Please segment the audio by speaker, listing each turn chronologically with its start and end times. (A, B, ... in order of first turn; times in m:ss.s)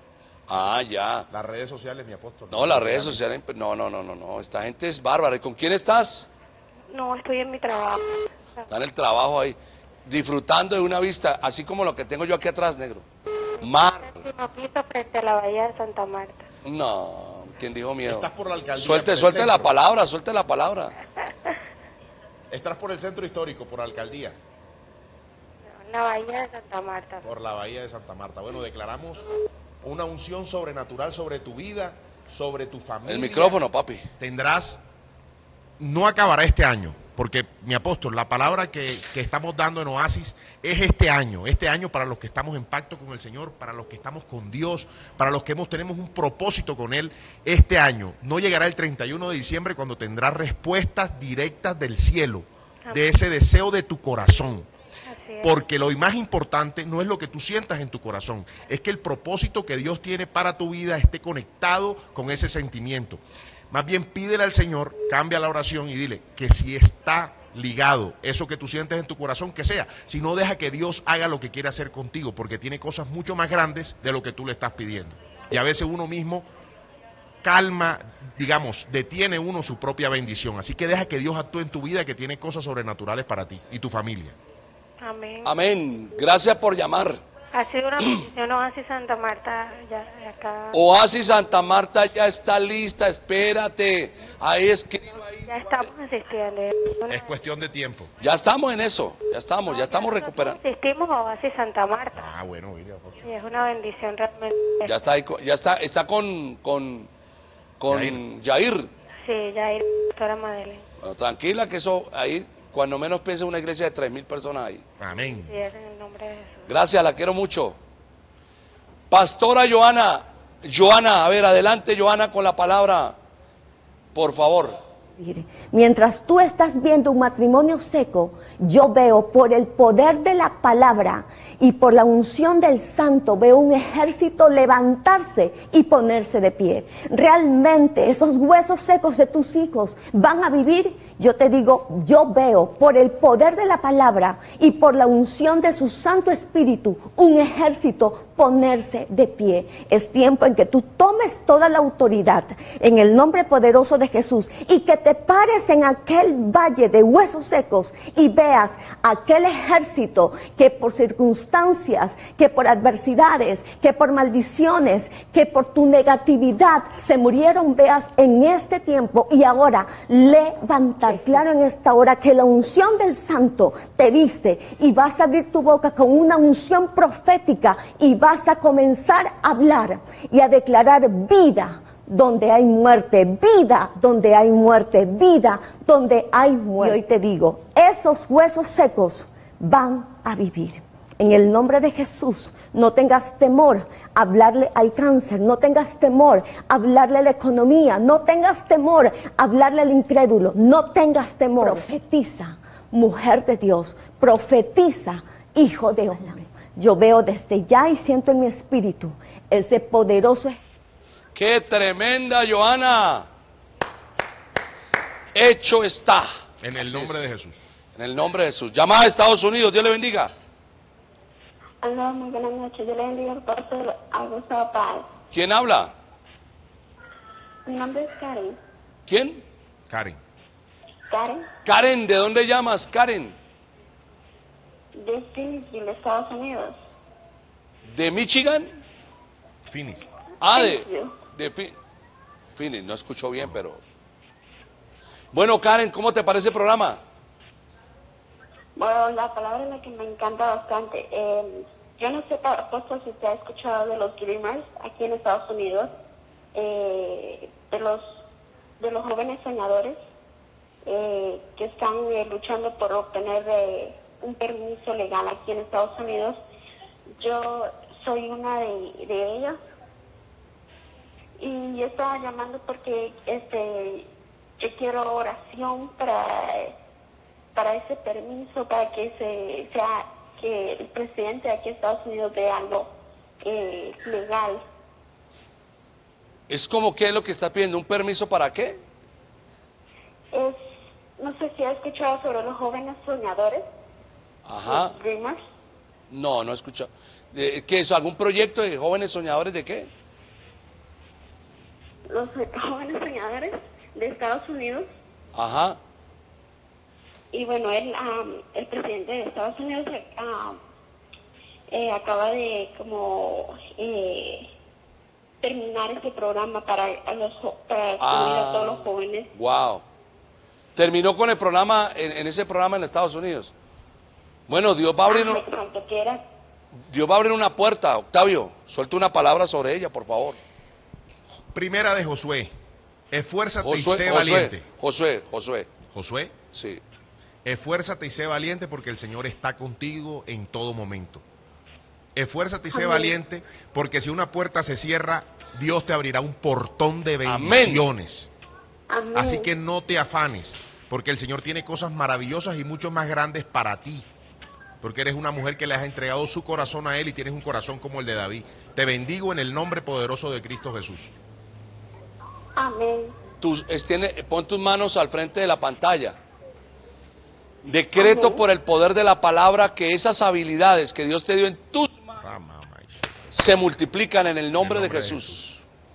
0:00.5-0:01.3 A
0:01.3-0:03.2 B
0:02.5-0:06.3 A
0:06.9-0:08.6 C
0:08.7-0:13.0 A
0:13.6-0:16.4 C
0:13.6-0:14.2 A
0:16.6-0:20.9 A
0:18.0-0:19.7 B
0:22.5-0:24.4 B
0:25.7-0:27.2 C
0:27.2-0:29.2 B
0:29.8-0:33.6 B
0:33.0-0:34.1 A
0:34.2-0:34.8 B
0:35.8-0:54.7 B
0:52.8-0:53.1 C
0:55.1-0:55.6 C
0:55.4-1:16.4 B
1:17.4-1:24.4 B
1:25.0-1:25.5 C
1:25.4-1:27.2 A
1:27.5-1:30.8 C
1:30.7-1:35.3 A
1:35.4-1:37.3 C
1:37.1-1:38.1 B
1:38.2-1:40.6 A
1:39.7-1:42.2 C
1:42.1-1:43.2 B
1:43.2-1:45.0 C
1:44.8-1:47.1 A
1:47.8-1:48.9 A
1:47.9-1:48.2 B
1:49.2-1:50.8 C
1:51.0-1:54.8 A
1:55.0-1:55.5 B
1:55.3-1:56.7 C
1:56.7-1:57.8 A
1:59.1-2:03.2 A
2:04.1-2:04.8 A
2:05.2-3:30.6 D
3:31.3-3:33.3 A
3:35.3-3:37.3 A
3:36.6-3:37.7 B
3:37.9-3:40.3 A
3:41.8-3:45.1 E
3:45.3-3:45.9 A
3:47.6-3:48.6 E
3:49.1-3:49.4 A
3:49.9-3:50.2 B
3:51.1-3:51.5 E
3:51.6-3:53.4 A
3:54.9-3:56.8 E
3:57.9-3:58.8 A
3:59.7-4:00.1 B
4:00.4-4:01.8 A
4:00.5-4:01.2 E
4:02.5-4:03.8 A
4:05.3-4:07.0 A
4:08.8-4:15.9 E
4:16.5-4:18.2 E
4:18.8-4:20.0 E
4:20.8-4:26.4 E
4:27.2-4:29.6 E
4:31.4-4:34.1 E
4:34.6-4:36.8 E
4:37.5-4:44.6 E
4:46.5-4:48.8 A
4:50.3-4:50.7 E
4:51.2-4:53.7 E
4:54.4-4:55.0 A
4:54.7-4:55.4 E
4:56.1-4:59.9 A
5:02.1-5:04.9 E
5:05.3-5:05.8 A
5:07.3-5:10.6 E
5:11.7-5:14.5 E
5:15.4-5:19.3 E
5:18.0-5:19.8 A
5:20.8-5:23.5 A
5:24.5-5:25.4 A
5:25.0-5:26.2 E
5:26.8-5:30.4 A
5:31.5-5:32.5 B
5:33.1-5:34.6 B
5:33.6-5:35.7 A
5:35.9-5:36.4 B
5:36.5-5:36.8 A
5:37.4-5:41.2 B
5:42.2-5:48.3 B
5:42.7-5:43.1 E
5:47.2-5:47.8 A
5:48.9-5:49.5 E
5:49.1-5:54.0 B
5:54.8-6:01.1 B
6:02.6-6:03.1 E
6:03.4-6:06.2 A
6:07.6-6:12.1 A
6:08.0-6:08.4 E
6:12.2-6:13.3 B
6:13.3-6:15.6 A
6:14.6-6:15.6 B